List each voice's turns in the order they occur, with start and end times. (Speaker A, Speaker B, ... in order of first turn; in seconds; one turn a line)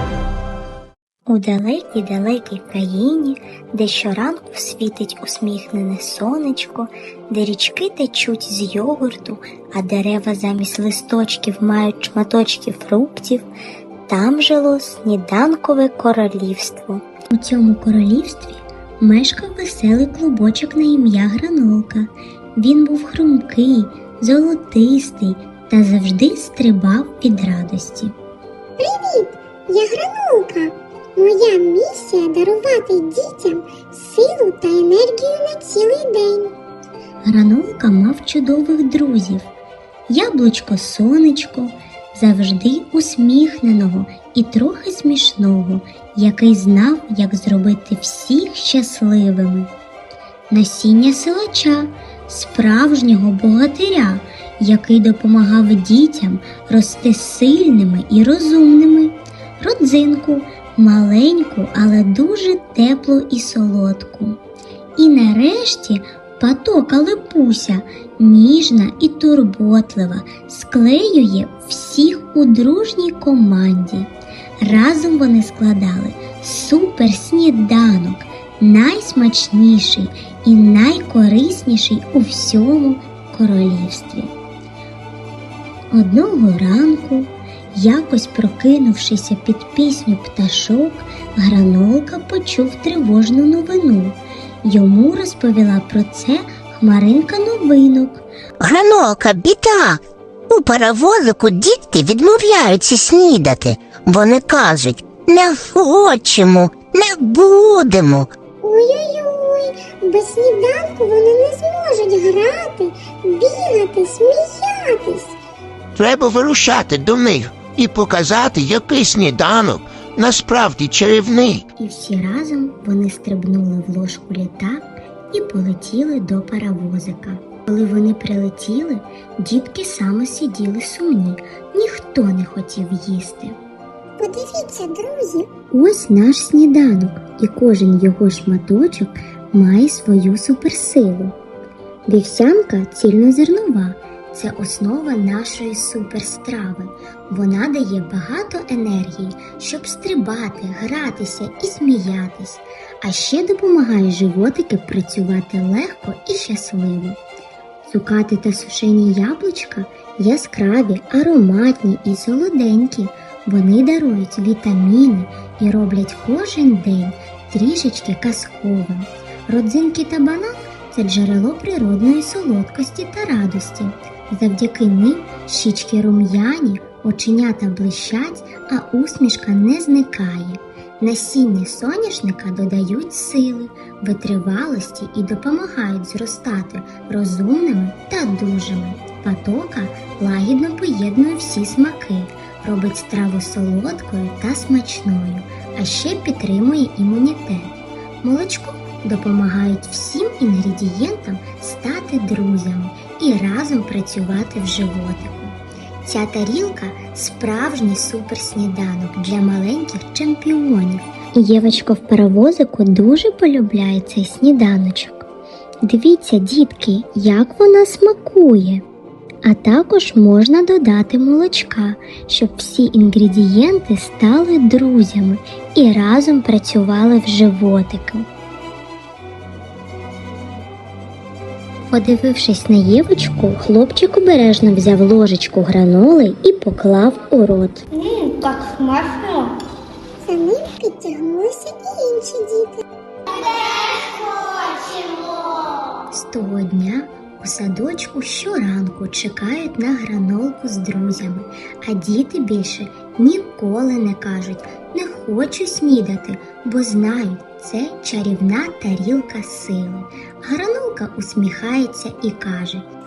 Speaker A: 1.3-13.5
Speaker A: 14.1-28.1
Speaker B: 28.8-36.6
Speaker A: 37.2-39.5
Speaker A: 40.1-49.7
Speaker A: 50.5-64.4
Speaker A: 65.0-84.3
Speaker A: 85.9-98.2
Speaker C: 98.6-108.3
Speaker B: 108.6-115.4
Speaker D: 116.0-121.6
Speaker A: 121.8-133.6
Speaker B: 134.2-135.5
Speaker A: 135.7-141.4
Speaker A: 142.1-157.2
Speaker A: 157.9-215.3
Speaker A: 215.8-218.8
Speaker A: 219.4-228.3
Speaker A: 231.9-237.8
Speaker B: 237.9-239.6
Speaker B: 240.2-242.8
Speaker B: 244.3-245.3
Speaker A: 246.1-262.9